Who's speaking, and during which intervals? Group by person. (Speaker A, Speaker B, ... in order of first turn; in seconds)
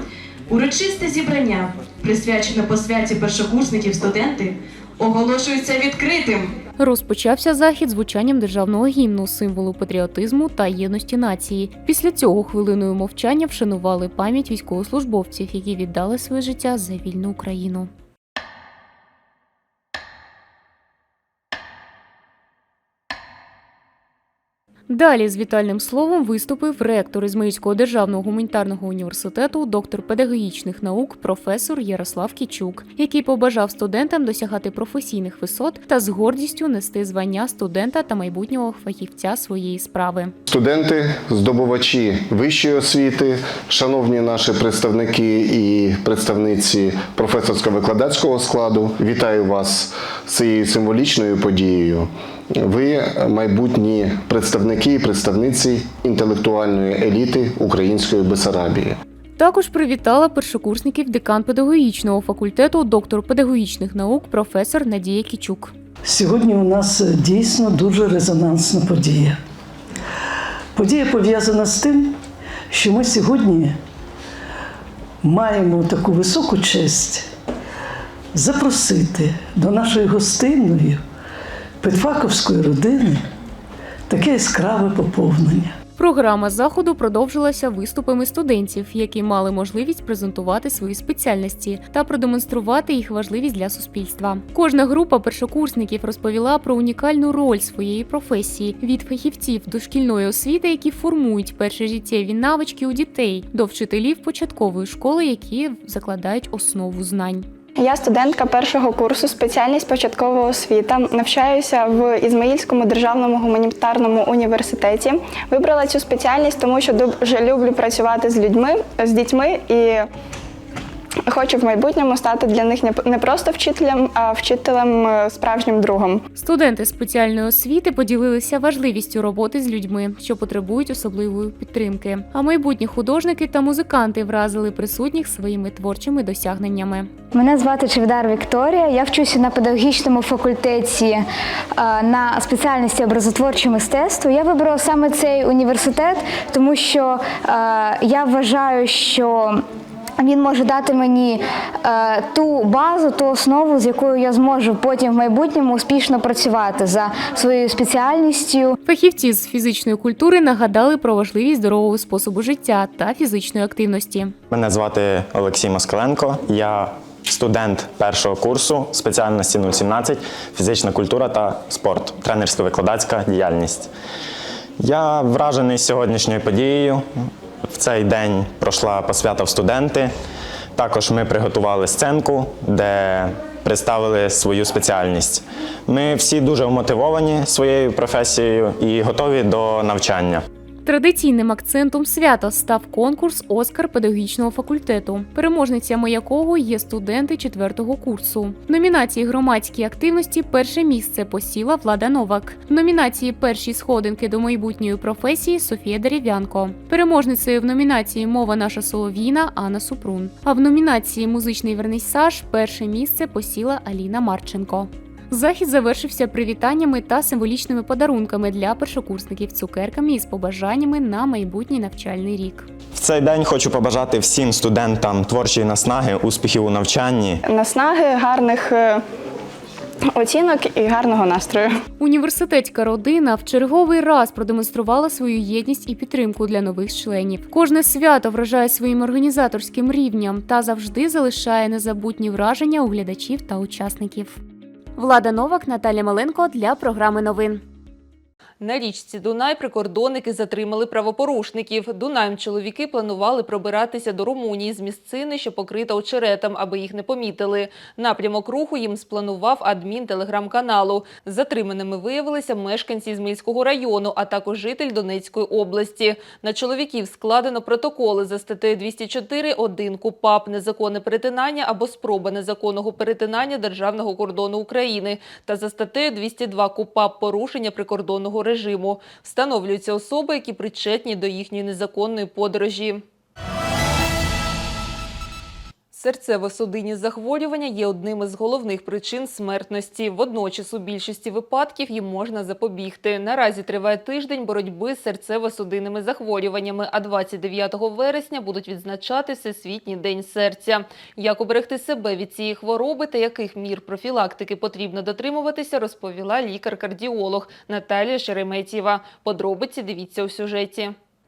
Speaker A: 0.5-6.5
Speaker B: 6.8-17.9, 24.9-40.3, 59.4-65.7, 86.0-107.5, 126.3-137.1, 158.9-164.3, 190.8-222.7, 232.0-244.4, 245.0-247.6
Speaker C: 40.5-59.0
Speaker D: 66.0-69.4, 70.7-72.2, 72.7-73.8, 75.2-77.3, 78.3-81.0, 81.8-83.2, 84.1-85.8
Speaker E: 107.8-120.1, 121.3-126.2, 227.5-229.0, 230.2-231.7
Speaker F: 137.3-141.2, 141.8-149.6, 150.2-158.7
Speaker G: 164.5-173.9, 174.8-180.1, 180.8-190.4, 222.9-227.4
Speaker H: 248.6-283.0, 285.9-310.9